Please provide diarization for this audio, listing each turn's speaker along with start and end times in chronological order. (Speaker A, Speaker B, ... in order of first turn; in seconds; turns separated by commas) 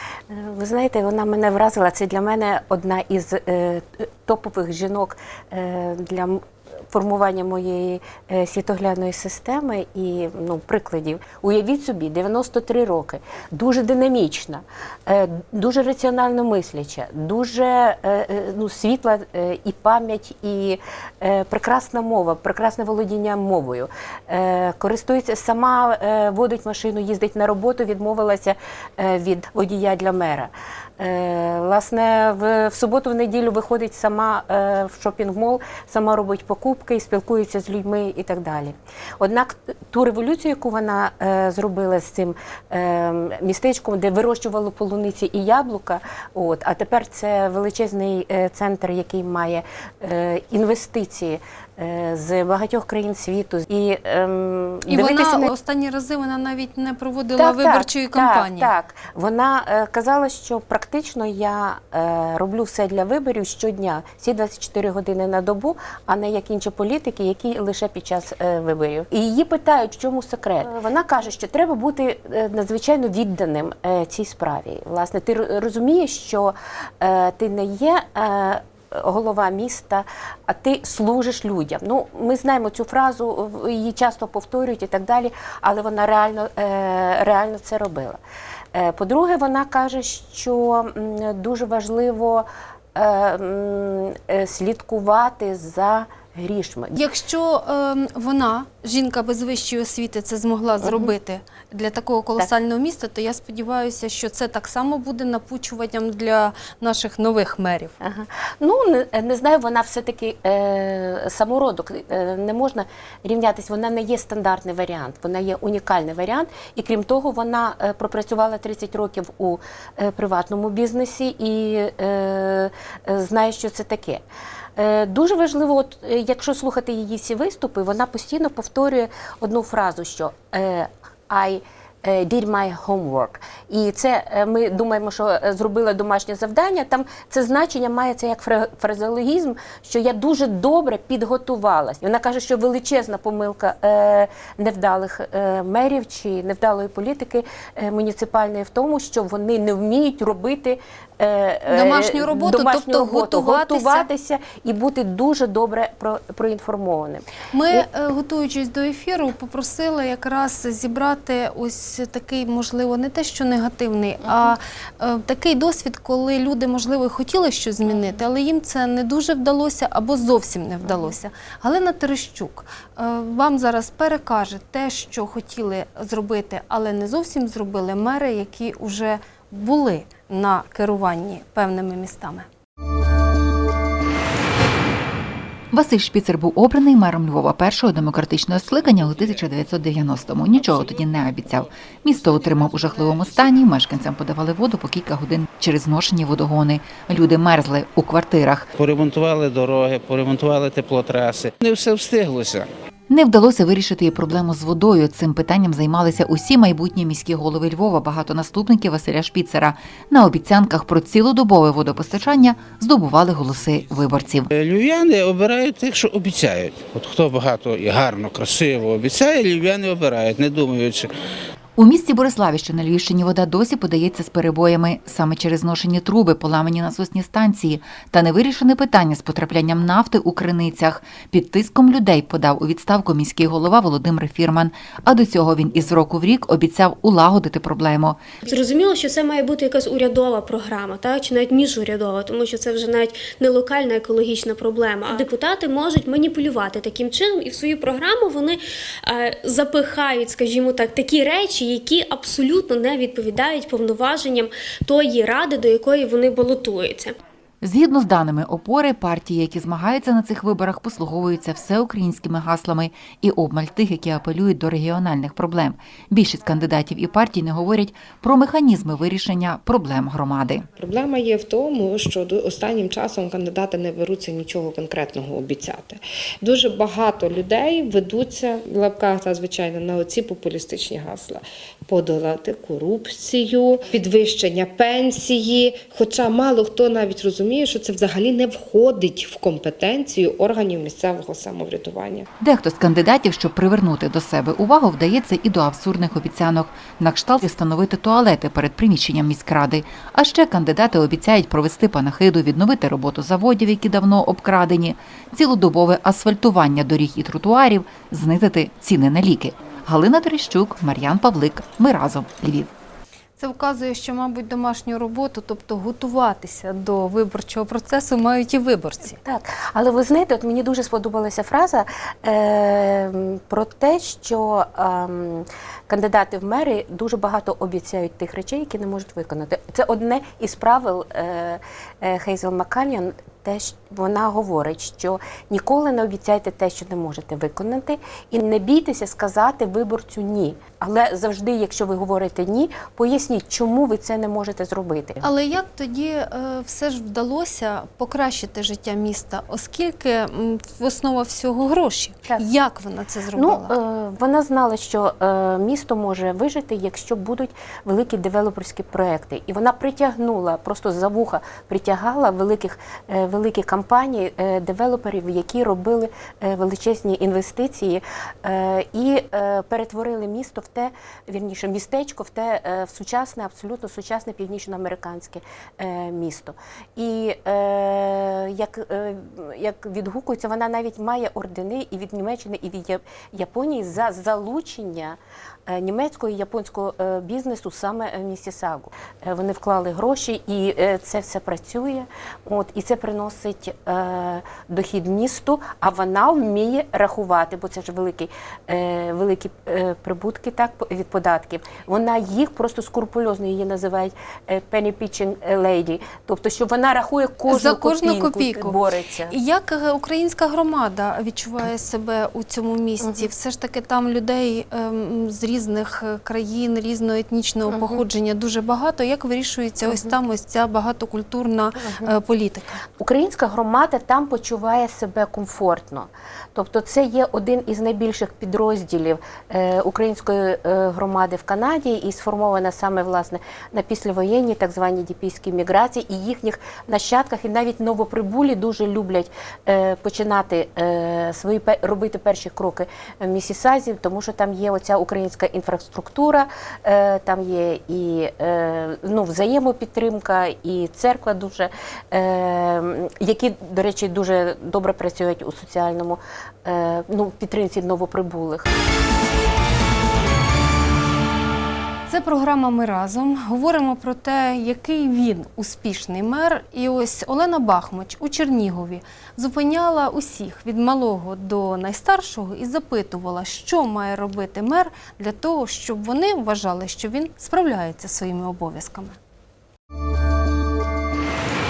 Speaker A: 0.3-55.5, Speaker B: 54.9-58.7, Speaker A: 57.4-88.2, Speaker A: 88.7-97.0, Speaker B: 96.9-107.9, Speaker A: 100.8-101.1, Speaker A: 108.0-124.2, Speaker A: 124.8-157.8, Speaker B: 151.7-154.1, Speaker B: 157.5-182.4, Speaker A: 170.8-171.1, Speaker C: 185.7-198.7, Speaker D: 198.8-202.7, Speaker C: 203.1-214.5, Speaker D: 214.5-221.1, Speaker C: 221.8-238.2, Speaker E: 238.4-257.1, Speaker C: 257.6-270.6, Speaker F: 270.8-292.2, Speaker C: 292.4-312.7, Speaker B: 313.4-319.2, Speaker A: 319.1-345.2, Speaker B: 345.2-353.7, Speaker A: 353.3-409.3, Speaker B: 407.5-408.8, Speaker B: 409.3-422.7, Speaker A: 413.0-413.3, Speaker A: 417.7-418.0, Speaker A: 419.8-420.1, Speaker A: 421.8-422.1, Speaker A: 423.0-458.7, Speaker B: 462.1-479.2